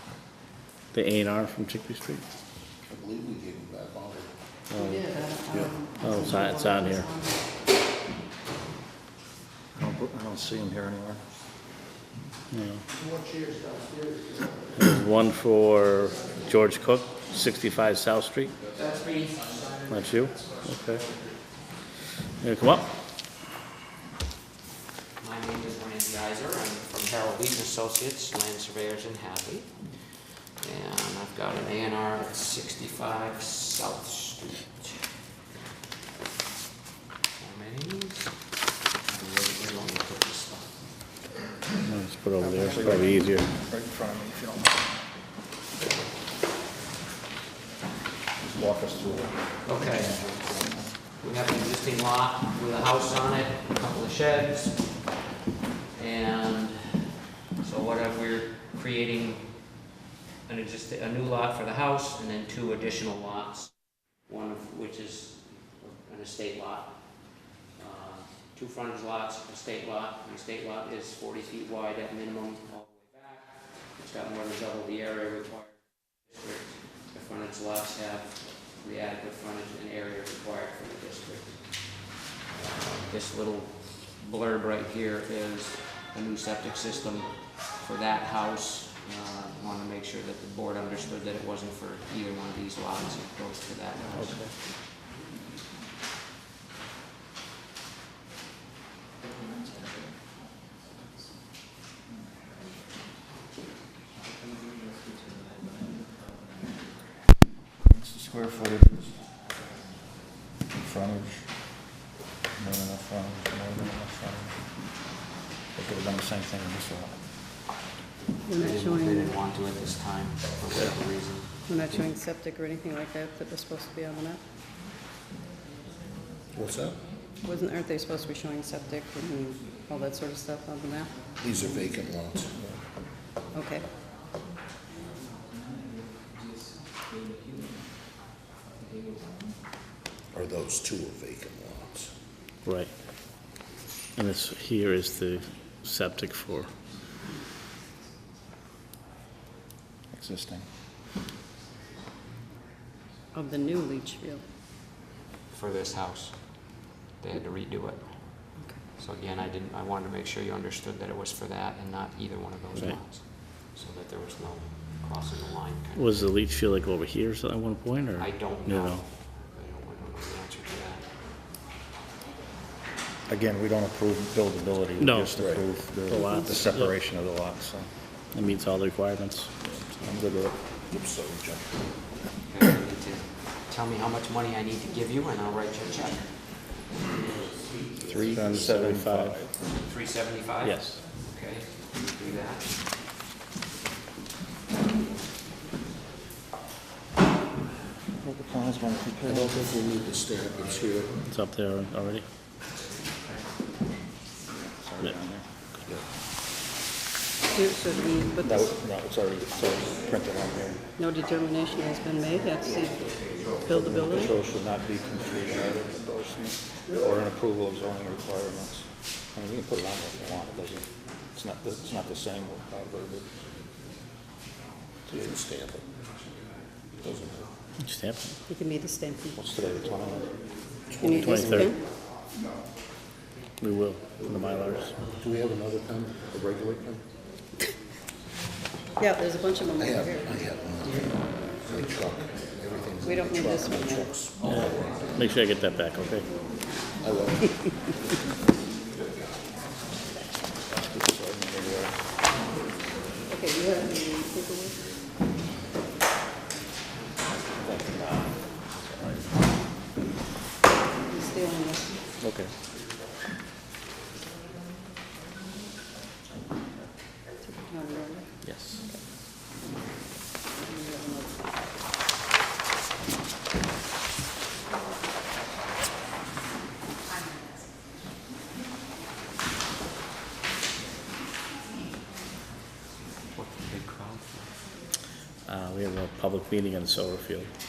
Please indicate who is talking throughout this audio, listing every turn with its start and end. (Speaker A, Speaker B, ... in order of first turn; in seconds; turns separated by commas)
Speaker A: 0.9-2.2, Speaker B: 2.9-4.3, Speaker A: 4.7-5.0, Speaker C: 4.8-7.4, Speaker A: 6.0-7.1, Speaker D: 9.7-11.2, Speaker A: 12.5-12.8, Speaker A: 14.8-18.5, Speaker E: 18.7-20.0, Speaker A: 19.9-21.0, Speaker A: 22.4-22.9, Speaker E: 25.2-35.1, Speaker E: 37.4-38.3, Speaker E: 39.0-40.8, Speaker A: 41.8-43.4, Speaker D: 42.4-45.0, Speaker D: 48.4-50.9, Speaker E: 49.6-50.1, Speaker E: 51.2-54.9, Speaker E: 55.9-57.0, Speaker E: 57.6-59.7, Speaker E: 60.5-94.4, Speaker A: 94.2-94.5, Speaker D: 107.8-109.2, Speaker D: 110.7-111.5, Speaker D: 112.6-114.5, Speaker D: 115.7-117.2, Speaker C: 118.5-119.3, Speaker E: 118.6-122.1, Speaker C: 121.7-124.4, Speaker B: 126.5-127.0, Speaker C: 127.4-131.1, Speaker B: 131.4-132.8, Speaker C: 133.5-133.9, Speaker B: 140.3-142.1, Speaker A: 142.6-142.9, Speaker A: 144.2-146.7, Speaker D: 150.1-150.6, Speaker C: 153.3-154.4, Speaker E: 155.5-156.4, Speaker E: 157.2-166.3, Speaker A: 165.9-169.0, Speaker E: 168.2-171.1, Speaker D: 173.3-177.9, Speaker A: 175.0-175.4, Speaker B: 175.3-175.6, Speaker A: 176.1-176.9, Speaker A: 178.3-179.5, Speaker D: 179.9-180.6, Speaker B: 180.9-181.6, Speaker E: 182.5-186.3, Speaker D: 188.0-189.5, Speaker A: 188.2-189.4, Speaker E: 189.8-192.7, Speaker A: 190.6-191.0, Speaker D: 198.2-199.6, Speaker B: 199.3-201.2, Speaker A: 201.3-202.2, Speaker D: 204.5-205.4, Speaker C: 207.5-208.7, Speaker D: 208.4-210.8, Speaker C: 211.0-214.3, Speaker D: 213.7-223.3, Speaker B: 225.1-225.8, Speaker B: 227.0-227.5, Speaker A: 227.8-228.3, Speaker C: 228.5-229.4, Speaker D: 229.3-230.3, Speaker B: 230.9-231.7, Speaker C: 231.0-231.8, Speaker A: 231.0-231.7, Speaker A: 233.6-234.9, Speaker B: 235.1-237.0, Speaker C: 239.0-240.3, Speaker B: 239.8-245.2, Speaker C: 243.0-244.1, Speaker A: 244.4-246.2, Speaker B: 247.0-247.6, Speaker D: 250.9-251.9, Speaker C: 253.3-254.8, Speaker D: 257.6-258.2, Speaker C: 261.1-262.0, Speaker A: 262.2-262.5, Speaker C: 267.4-268.3, Speaker A: 268.4-268.8, Speaker C: 270.6-271.4, Speaker E: 283.3-284.5, Speaker A: 285.4-287.5